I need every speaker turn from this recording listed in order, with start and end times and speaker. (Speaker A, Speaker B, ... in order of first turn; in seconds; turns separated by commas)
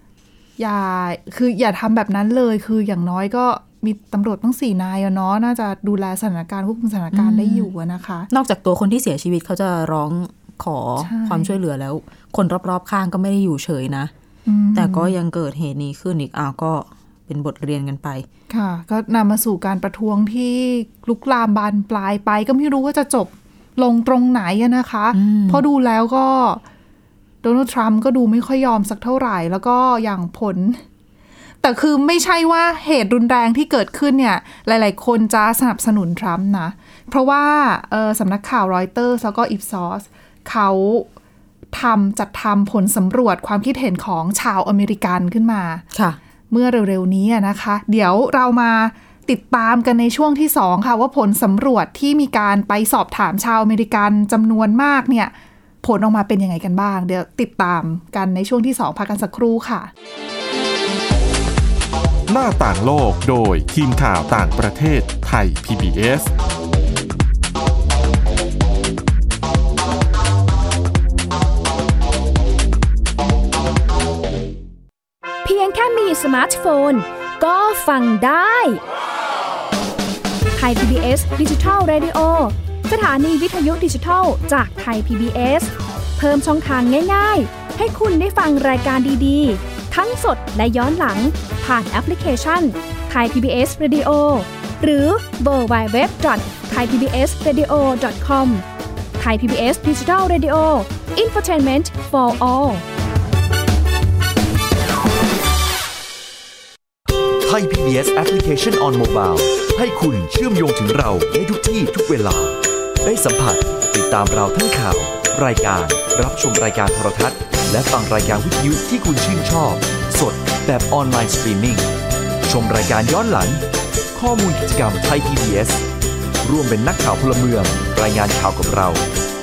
Speaker A: 0.6-8.3, Speaker B: 7.1-7.7, Speaker B: 8.3-14.1, Speaker A: 11.0-11.5, Speaker A: 14.4-15.1, Speaker B: 14.7-18.2, Speaker A: 18.5-26.6, Speaker B: 25.1-25.6, Speaker A: 27.4-30.8, Speaker A: 31.6-41.1, Speaker A: 41.7-45.8, Speaker B: 45.9-46.2, Speaker A: 46.5-59.9, Speaker C: 62.3-66.3, Speaker D: 75.4-78.8, Speaker D: 80.5-98.6, Speaker D: 99.2-102.8, Speaker E: 107.4-121.9, Speaker E: 122.4-125.8, Speaker E: 126.4-129.0